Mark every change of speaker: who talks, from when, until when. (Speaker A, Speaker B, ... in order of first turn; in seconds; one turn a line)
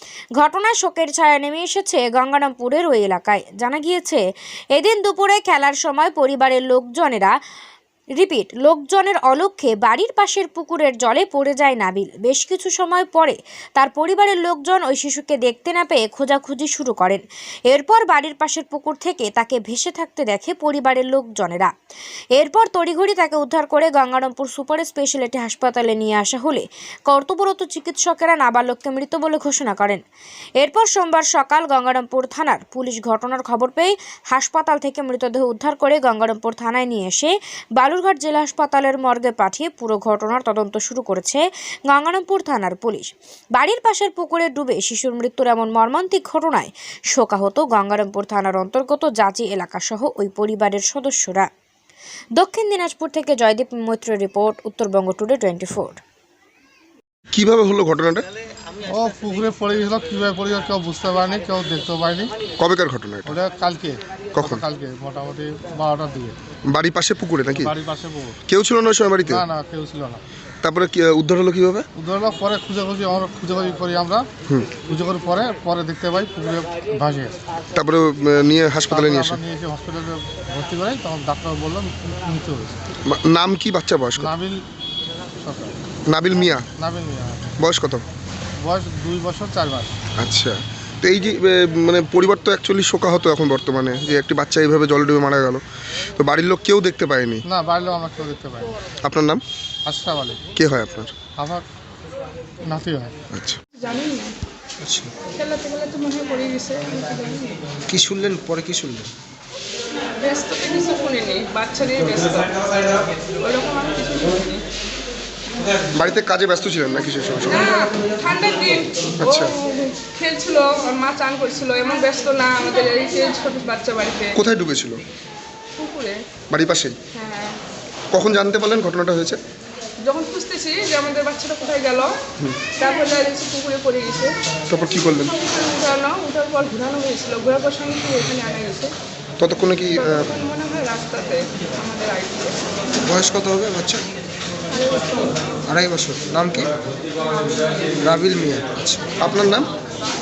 Speaker A: 0.4-4.2
Speaker A: 4.7-7.3
Speaker A: 8.2-21.7
Speaker A: 22.4-30.0
Speaker A: 30.6-51.5
Speaker A: 52.4-56.0
Speaker B: 57.3-58.2
Speaker C: 58.9-62.4
Speaker B: 62.5-63.4
Speaker C: 63.2-66.4
Speaker B: 64.3-64.6
Speaker B: 66.7-67.7
Speaker C: 67.5-68.4
Speaker B: 68.5-69.4
Speaker C: 69.2-70.2
Speaker B: 70.6-71.9
Speaker C: 72.0-77.4
Speaker B: 74.5-74.7
Speaker B: 77.7-79.4
Speaker C: 78.9-82.8
Speaker B: 83.0-84.3
Speaker C: 84.2-84.7
Speaker C: 85.4-85.8
Speaker B: 86.0-86.7
Speaker C: 86.8-87.5
Speaker B: 87.6-88.0
Speaker C: 88.6-90.0
Speaker B: 90.2-95.6
Speaker B: 96.2-97.4
Speaker C: 97.5-98.8
Speaker B: 99.0-99.4
Speaker C: 99.8-100.4
Speaker B: 100.5-101.1
Speaker C: 101.3-101.6
Speaker C: 102.6-103.1
Speaker B: 103.3-103.6
Speaker D: 103.8-104.3
Speaker E: 104.8-105.1
Speaker D: 105.3-107.6
Speaker E: 107.9-109.1
Speaker D: 110.2-114.6
Speaker B: 115.9-117.8
Speaker D: 117.5-124.4
Speaker B: 119.2-119.5
Speaker B: 124.3-125.0
Speaker D: 125.8-126.2
Speaker B: 126.5-127.0
Speaker D: 127.1-127.6
Speaker B: 128.1-129.4
Speaker D: 130.0-132.1
Speaker D: 132.8-134.3
Speaker B: 134.7-135.3
Speaker D: 135.3-138.9
Speaker B: 139.4-140.3
Speaker D: 140.0-142.6
Speaker E: 143.0-144.0
Speaker D: 144.7-145.3
Speaker E: 145.7-146.7
Speaker D: 147.3-147.7
Speaker E: 147.9-149.1
Speaker B: 149.2-149.7